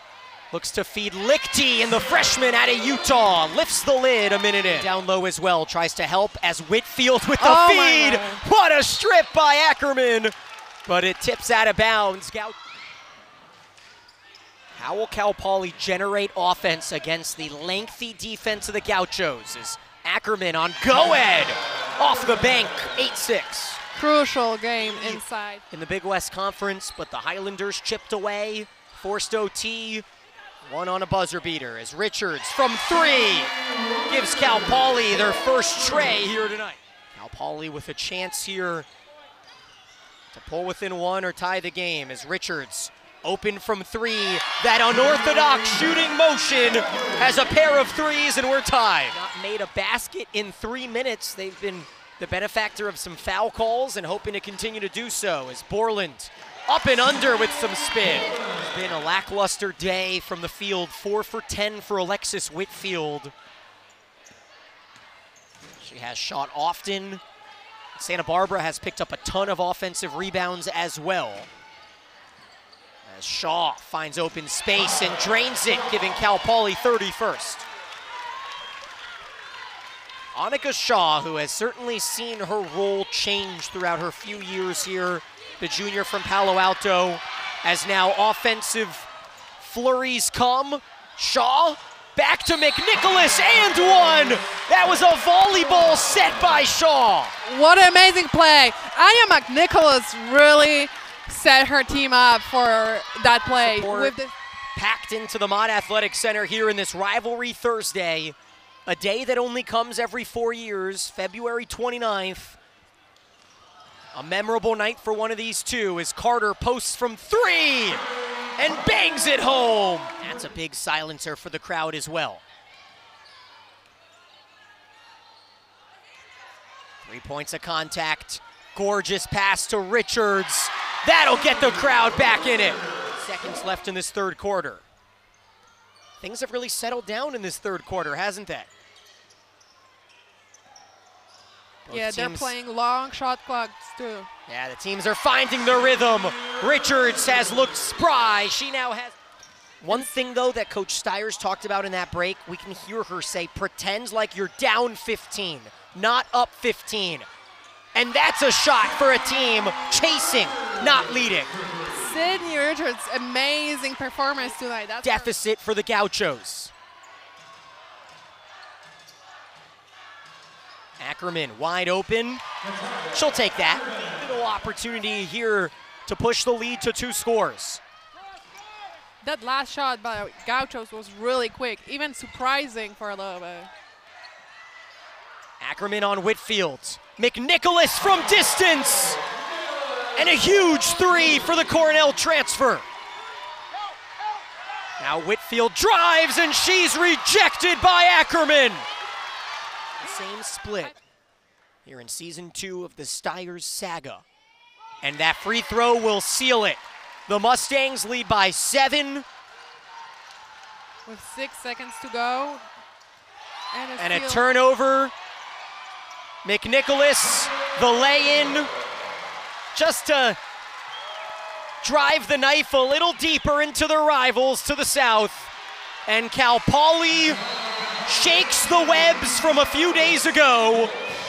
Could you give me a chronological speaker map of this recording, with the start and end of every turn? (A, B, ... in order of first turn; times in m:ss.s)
0:00.5-0:10.3 A
0:07.4-0:08.4 B
0:10.9-0:12.6 A
0:14.8-0:23.8 A
0:23.9-0:25.6 B
0:25.7-0:30.0 A
0:30.6-0:33.5 A
0:34.1-0:38.9 A
0:40.3-1:03.3 A
1:05.8-1:07.2 A
1:08.0-1:11.5 A
1:13.1-1:17.6 A
1:20.3-1:37.4 A
1:37.4-1:44.4 B
1:43.5-1:44.1 A
1:44.8-1:52.6 A
1:54.1-1:58.0 A
1:58.6-2:02.4 A
2:07.0-2:14.9 A
2:16.2-2:18.7 A
2:21.9-2:22.5 A
2:21.9-2:24.3 B
2:24.5-2:29.2 A
2:29.8-2:37.3 A
2:38.0-2:41.6 A
2:41.9-2:45.3 B
2:45.0-2:46.7 A
2:51.0-2:52.4 A
2:53.1-2:57.8 A
2:59.2-3:03.7 B
3:05.6-3:09.2 A
3:10.2-3:12.9 A
3:15.0-3:18.9 A
3:20.0-3:21.0 A
3:21.8-3:24.2 A
3:25.0-3:29.3 A
3:31.1-3:32.6 B
3:33.7-3:34.4 B
3:34.0-3:35.1 A
3:36.4-3:38.7 A
3:39.7-3:40.4 A
3:41.8-3:45.5 A
3:46.1-3:47.4 A
3:48.0-3:50.9 A